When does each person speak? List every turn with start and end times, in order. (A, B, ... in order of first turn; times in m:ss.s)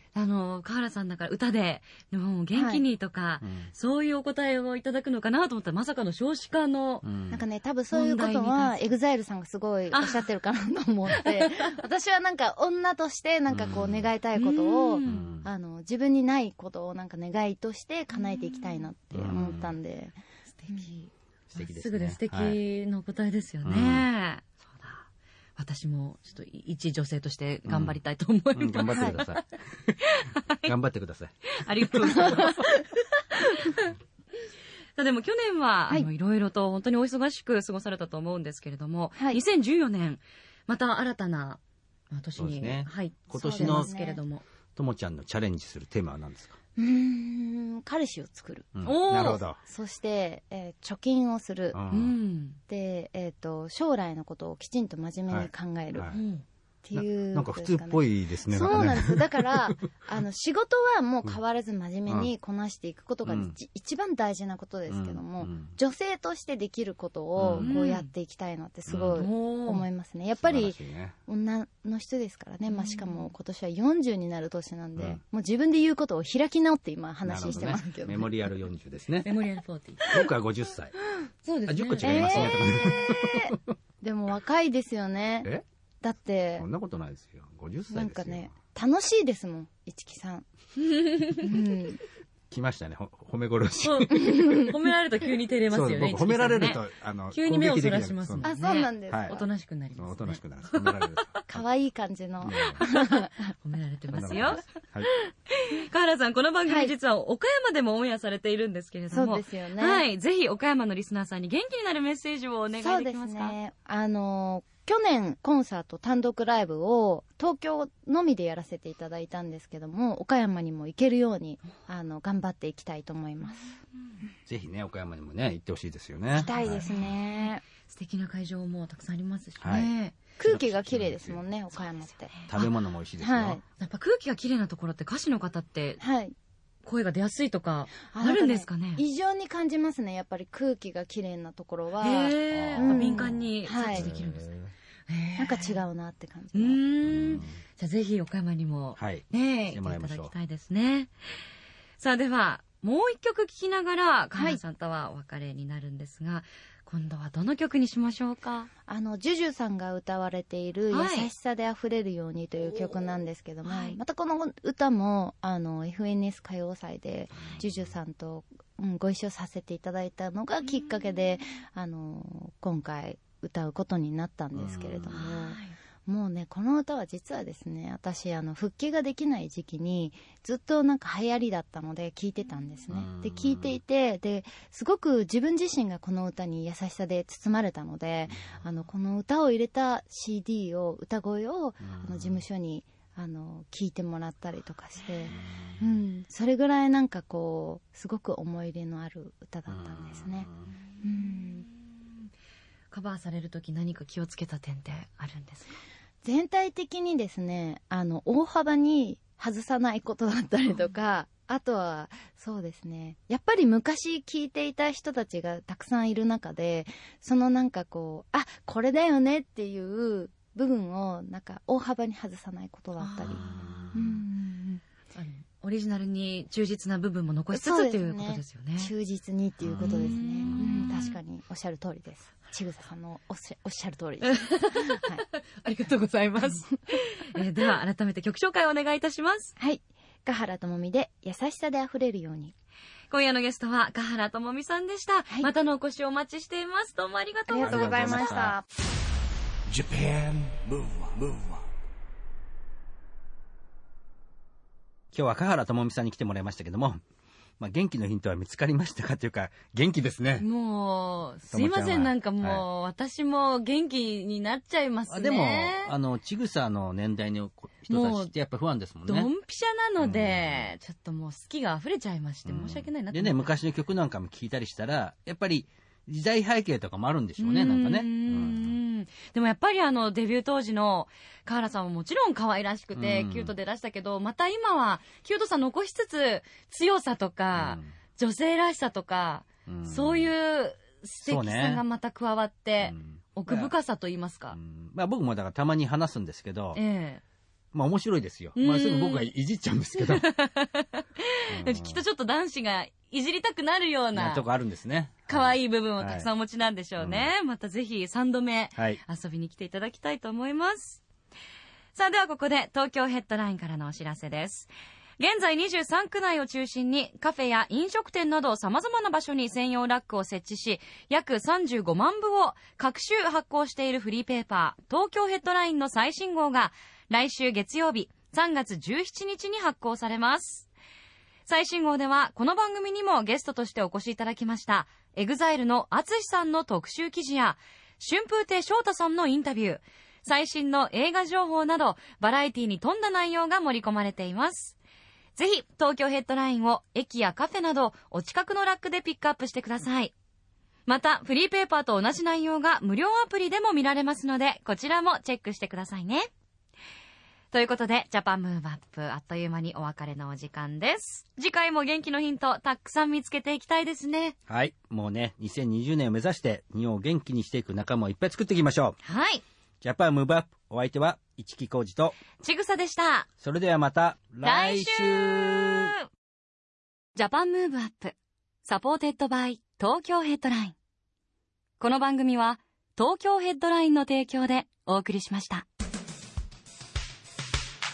0:00.2-0:07.1 A
0:02.5-0:02.8 B
0:03.4-0:03.7 C
0:07.0-0:07.4 C
0:07.3-0:20.2 B
0:07.9-0:08.9 A
0:09.9-0:10.2 A
0:11.1-0:11.8 A
0:13.5-0:14.1 C
0:14.4-0:15.3 A
0:15.0-0:15.5 C
0:18.4-0:18.8 A
0:19.1-0:19.7 C
0:20.6-0:25.0 A
0:21.5-0:22.6 C
0:23.6-0:24.1 C
0:25.6-0:29.4 A
0:27.7-0:28.0 C
0:28.6-0:30.0 C
0:30.0-0:30.7 A
0:30.6-0:32.4 C
0:31.5-0:33.9 A
0:35.0-0:41.6 A
0:42.1-0:44.4 A
0:42.4-0:43.9 C
0:43.3-0:44.2 B
0:44.8-0:46.6 C
0:46.8-0:48.7 B
0:48.8-0:49.6 C
0:48.8-0:49.4 A
0:49.6-0:51.8 B
0:51.7-0:52.2 C
0:51.9-0:52.6 A
0:52.7-0:56.1 B
0:55.3-0:56.2 C
0:56.1-0:56.4 A
0:56.8-1:18.4 B
0:56.9-0:59.6 C
1:03.3-1:03.6 C
1:04.9-1:05.7 C
1:07.4-1:07.8 C
1:07.6-1:08.1 A
1:08.9-1:09.3 C
1:09.1-1:09.9 A
1:10.4-1:11.2 C
1:12.7-1:13.3 A
1:17.2-1:19.3 C
1:19.2-1:20.3 A
1:20.1-1:21.0 C
1:21.4-1:22.8 A
1:21.7-1:23.6 C
1:22.0-1:25.5 B
1:26.0-1:26.7 B
1:26.6-1:28.5 C
1:27.9-1:30.5 B
1:30.9-1:31.5 A
1:31.3-1:32.0 B
1:32.5-1:34.5 C
1:33.8-1:41.4 A
1:34.2-1:34.7 B
1:35.7-1:38.5 C
1:38.4-1:39.5 B
1:39.1-1:39.4 C
1:40.0-1:41.6 C
1:41.5-1:43.4 B
1:42.4-1:42.8 C
1:42.5-1:53.6 A
1:44.1-1:45.1 C
1:46.7-1:46.9 B
1:49.1-1:50.0 B
1:52.8-2:03.8 B
2:04.5-2:07.1 C
2:06.3-2:07.6 B
2:06.4-2:07.1 A
2:07.9-2:10.2 A
2:09.6-2:09.9 C
2:10.4-2:12.3 B
2:10.4-2:11.4 C
2:12.4-2:12.7 A
2:12.5-2:13.6 C
2:13.2-2:13.6 B
2:13.8-2:16.0 A
2:16.0-2:16.3 B
2:16.8-2:19.0 A
2:18.1-2:24.1 B
2:22.0-2:24.5 A
2:22.5-2:24.7 C
2:25.1-2:25.8 A
2:25.4-2:26.8 B
2:26.5-2:31.1 A
2:27.0-2:27.6 C
2:29.0-2:30.3 C
2:32.0-2:38.7 A
2:38.9-3:20.5 B
2:40.9-2:41.3 A
2:43.7-2:44.0 A
2:47.6-2:47.9 C
2:54.6-2:55.2 C
2:55.1-2:55.8 A
3:02.9-3:03.8 C
3:11.8-3:12.4 C
3:15.3-3:15.8 C
3:19.7-3:20.7 C
3:21.0-3:21.6 B
3:22.9-3:25.8 A
3:26.2-3:44.8 B
3:43.0-3:44.0 A
3:43.3-3:44.1 C
3:45.2-3:48.9 A
3:47.5-3:55.2 B
3:49.6-3:51.0 C
3:49.8-3:51.2 A
3:54.3-3:59.5 A
3:59.6-4:02.5 B
4:03.1-4:08.3 A
4:07.5-4:08.6 B
4:07.6-4:08.6 C
4:09.7-4:11.7 D
4:15.1-4:17.0 C
4:17.6-4:20.5 C
4:20.4-4:25.9 A
4:21.5-4:22.6 C
4:25.1-4:29.3 C
4:27.9-4:28.3 A
4:29.1-4:33.5 A
4:30.0-4:30.7 C
4:32.5-4:38.8 C
4:37.4-4:54.6 A
4:43.0-4:43.5 C
4:47.5-4:47.9 C
4:49.7-4:50.3 C
4:51.2-4:51.8 C
4:52.8-4:53.8 C
4:54.5-4:56.8 C
4:56.8-4:57.2 A
4:57.7-5:00.3 C
4:58.6-4:59.3 A
5:00.0-5:04.4 A
5:01.5-5:02.0 C
5:04.2-5:06.3 C
5:05.3-5:11.0 A
5:07.0-5:07.3 C
5:12.0-5:30.7 A
5:31.5-5:44.8 A
5:45.4-5:50.1 A
5:50.9-5:56.3 A
5:57.5-6:04.4 A
6:04.5-6:09.0 C
6:09.0-6:09.4 A
6:09.8-6:12.2 C
6:12.4-6:13.3 A
6:13.4-6:15.9 C
6:14.4-6:16.0 A
6:17.2-6:20.8 A
6:21.8-6:25.7 A